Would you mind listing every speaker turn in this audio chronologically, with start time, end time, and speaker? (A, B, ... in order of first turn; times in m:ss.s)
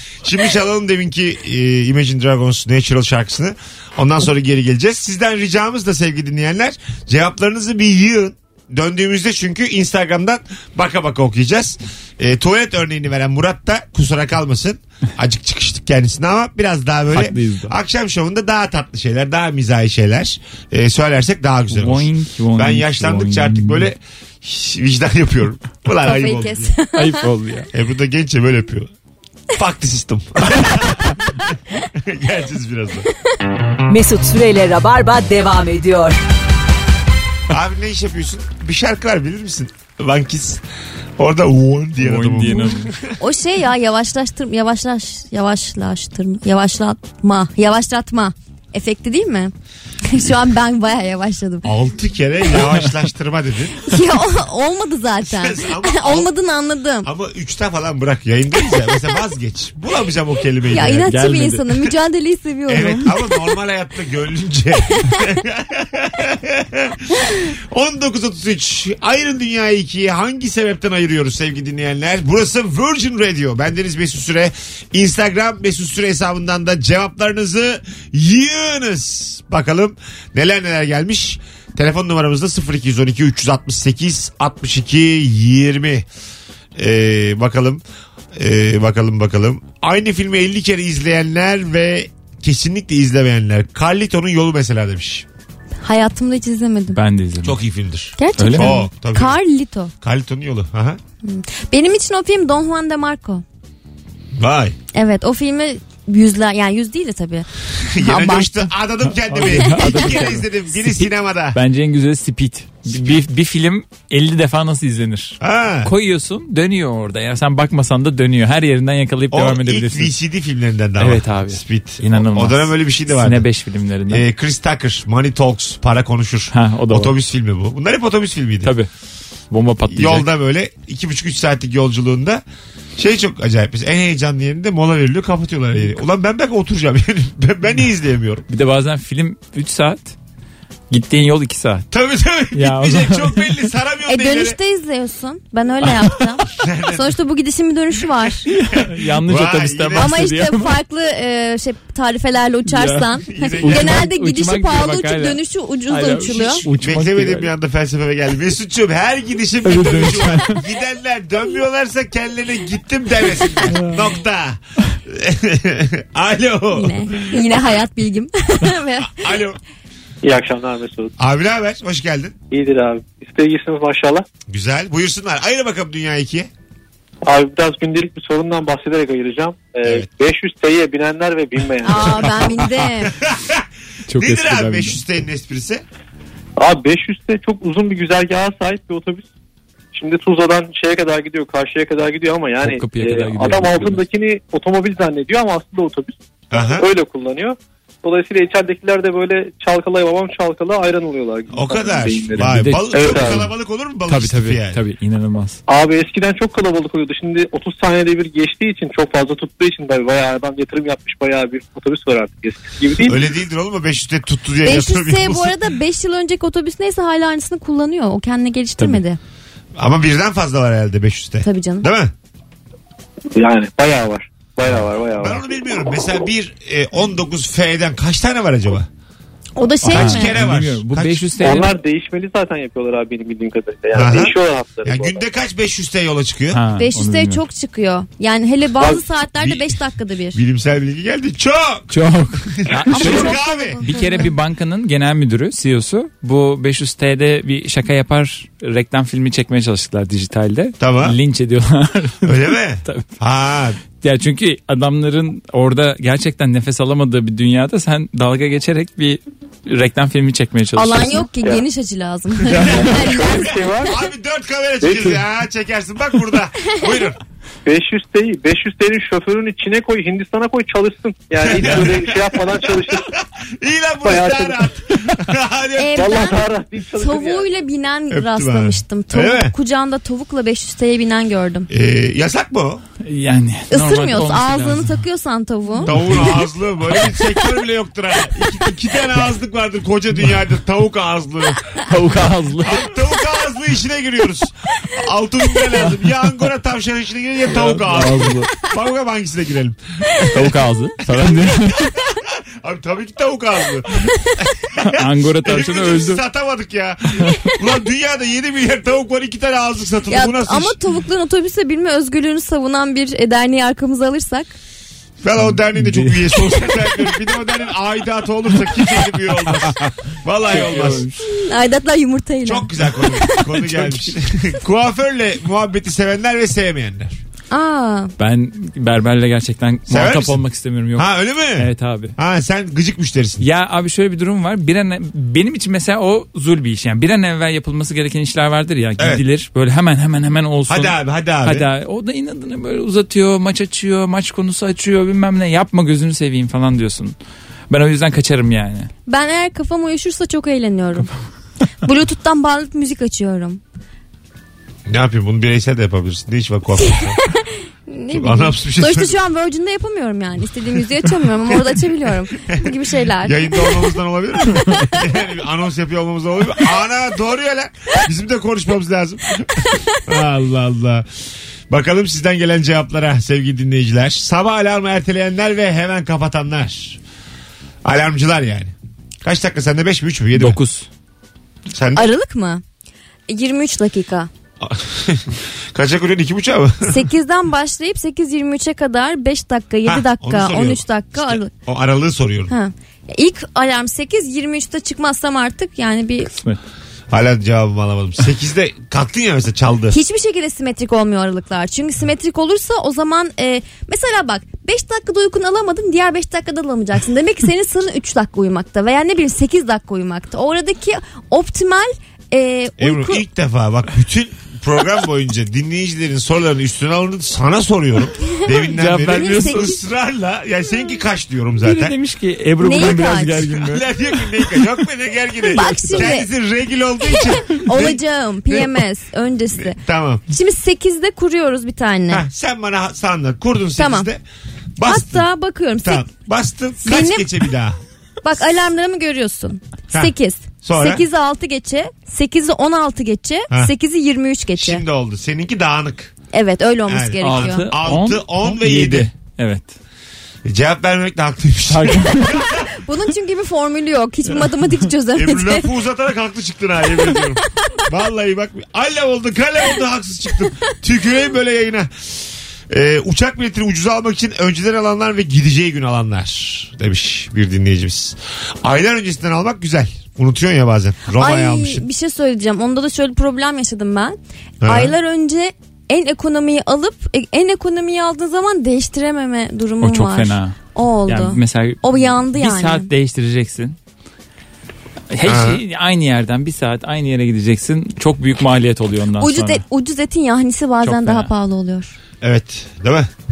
0:00.2-0:26.7 A
0:17.1-0:17.7 B
0:21.7-0:23.9 B
0:26.0-0:27.3 C
0:27.0-0:27.7 B
0:27.7-0:28.9 A
0:29.6-0:31.2 A
0:31.9-0:33.1 A
0:33.9-0:36.2 D
0:37.5-0:40.6 A
0:41.2-0:43.1 A
0:42.0-0:42.9 B
0:43.2-0:49.5 C
0:50.1-0:51.7 C
0:51.6-0:53.8 A
0:53.8-0:57.1 C
0:55.2-0:56.3 A
0:57.0-1:01.1 A
1:00.7-1:03.4 C
1:01.0-1:01.6 B
1:02.7-1:26.0 A
1:26.8-1:27.8 A
1:28.3-1:35.2 A
1:35.8-1:37.0 C
1:36.9-1:37.6 B
1:37.4-1:39.4 A
1:38.2-1:39.9 C
1:38.4-1:38.8 B
1:40.0-1:41.0 A
1:41.2-1:43.4 C
1:44.4-1:44.8 A
1:44.9-1:47.5 C
1:47.9-1:51.6 A
1:48.0-1:48.7 C
1:49.3-1:50.5 B
1:49.4-1:50.2 C
1:51.5-2:00.1 B
1:55.4-1:55.9 A
1:59.3-2:03.4 A
2:01.0-2:04.2 B
2:04.1-2:08.7 A
2:06.5-2:07.1 B
2:08.6-2:08.9 B
2:09.5-2:10.3 B
2:09.9-2:12.4 A
2:13.0-2:18.4 A
2:18.5-2:20.1 B
2:20.9-2:21.8 B
2:21.9-2:24.6 A
2:22.5-2:23.5 B
2:24.1-2:28.5 C
2:26.6-2:27.2 A
2:28.5-2:30.7 B
2:28.7-2:30.2 A
2:29.9-2:36.6 C
2:32.7-2:37.5 B
2:33.3-2:34.1 A
2:36.7-2:47.5 A
2:39.6-2:40.6 B
2:43.7-2:44.1 B
2:46.7-2:49.4 C
2:49.0-2:49.6 A
2:50.2-2:51.1 E
2:51.2-2:52.3 A
2:52.5-2:54.2 E
2:54.5-2:56.5 A
2:57.2-3:02.3 E
3:01.8-3:03.1 C
3:03.1-3:05.8 A
3:04.1-3:05.0 B
3:06.6-3:09.3 E
3:09.9-3:23.5 E
3:12.6-3:14.0 B
3:16.5-3:16.9 A
3:21.5-3:24.8 A
3:22.3-3:23.5 B
3:24.1-3:25.6 B
3:25.7-3:33.3 E
3:33.0-3:35.6 A
3:34.6-3:39.2 C
3:39.8-3:42.1 A
3:41.4-3:41.9 C
3:43.3-3:45.4 E
3:44.6-3:48.9 A
3:49.6-3:50.4 C
3:49.8-3:51.7 B
3:49.9-3:51.3 A
3:51.4-3:55.2 E
3:53.9-3:56.6 A
3:56.5-3:57.4 B
3:56.8-4:00.4 C
3:59.4-3:59.8 A
4:00.3-4:03.9 A
4:01.9-4:13.0 B
4:02.9-4:04.3 C
4:10.8-4:11.2 A
4:12.2-4:13.8 A
4:14.0-4:21.3 B
4:20.7-4:23.7 C
4:22.6-4:24.0 E
4:23.3-4:27.2 A
4:24.8-4:25.2 E
4:27.6-4:33.1 E
4:31.4-4:36.2 A
4:31.6-4:31.9 B
4:34.0-4:34.6 E
4:35.8-4:41.7 C
4:35.9-4:37.5 E
4:38.1-4:39.5 A
4:41.7-4:42.8 A
4:43.0-4:45.0 B
4:43.7-4:45.9 C
4:45.8-4:46.4 B
4:45.8-4:51.8 A
4:51.8-4:52.9 B
4:52.6-5:00.5 A
4:57.5-4:58.5 B
5:00.3-5:01.9 B
5:01.0-5:10.8 A
5:04.8-5:06.2 B
5:10.1-5:14.5 C
5:15.2-5:21.1 A
5:15.4-5:16.4 B
5:19.6-5:19.9 B
5:20.4-5:21.2 B
5:21.2-5:23.6 C
5:22.4-5:27.2 A
5:23.7-5:24.0 B
5:27.5-5:28.1 C
5:28.2-5:32.1 B
5:29.9-5:30.4 A
5:30.9-5:33.4 A
5:33.4-5:47.1 B
5:39.0-5:39.2 A
5:40.7-5:41.7 A
5:47.7-5:48.9 B
5:49.1-5:51.1 C
5:51.8-5:53.6 C
5:54.9-5:57.2 A
5:56.8-6:03.9 C
5:58.1-5:59.2 A
6:03.2-6:11.0 A
6:04.6-6:05.0 C
6:11.7-6:17.0 A
6:17.8-6:18.7 A
6:19.2-6:20.6 A
6:20.3-6:20.9 B
6:21.7-6:22.1 A
6:21.9-6:22.6 C
6:23.3-6:24.3 C
6:24.6-6:27.0 A
6:26.8-6:31.5 C
6:29.8-6:32.5 A
6:32.5-6:36.3 C
6:36.3-6:36.6 B
6:37.1-6:40.0 A
6:39.9-6:53.2 C
6:52.8-7:01.9 A
6:58.2-6:59.7 C
6:58.7-6:59.7 B
7:01.6-7:03.8 B
7:02.6-7:03.5 C
7:03.5-7:08.8 A
7:05.5-7:06.1 B
7:05.5-7:06.3 C
7:07.0-7:09.8 C
7:09.6-7:10.2 A
7:10.3-7:12.2 C
7:12.1-7:14.2 A
7:13.8-7:14.1 C
7:14.8-7:15.3 A
7:14.8-7:16.1 C
7:15.8-7:17.8 A
7:16.8-7:17.3 C
7:18.2-7:24.8 C
7:19.9-7:21.0 A
7:24.6-7:26.1 A
7:26.3-7:27.7 C
7:26.8-7:29.1 A
7:27.2-7:29.7 B
7:30.4-7:32.6 A
7:31.7-7:32.4 B
7:32.6-7:35.7 C
7:35.1-7:42.1 A
7:42.7-7:51.8 A
7:51.1-8:02.9 C
7:54.6-7:54.9 A
7:59.8-8:03.8 B
8:05.1-8:09.6 B
8:05.2-8:05.6 A
8:09.2-8:11.9 C
8:10.8-8:11.3 B
8:12.2-8:13.1 A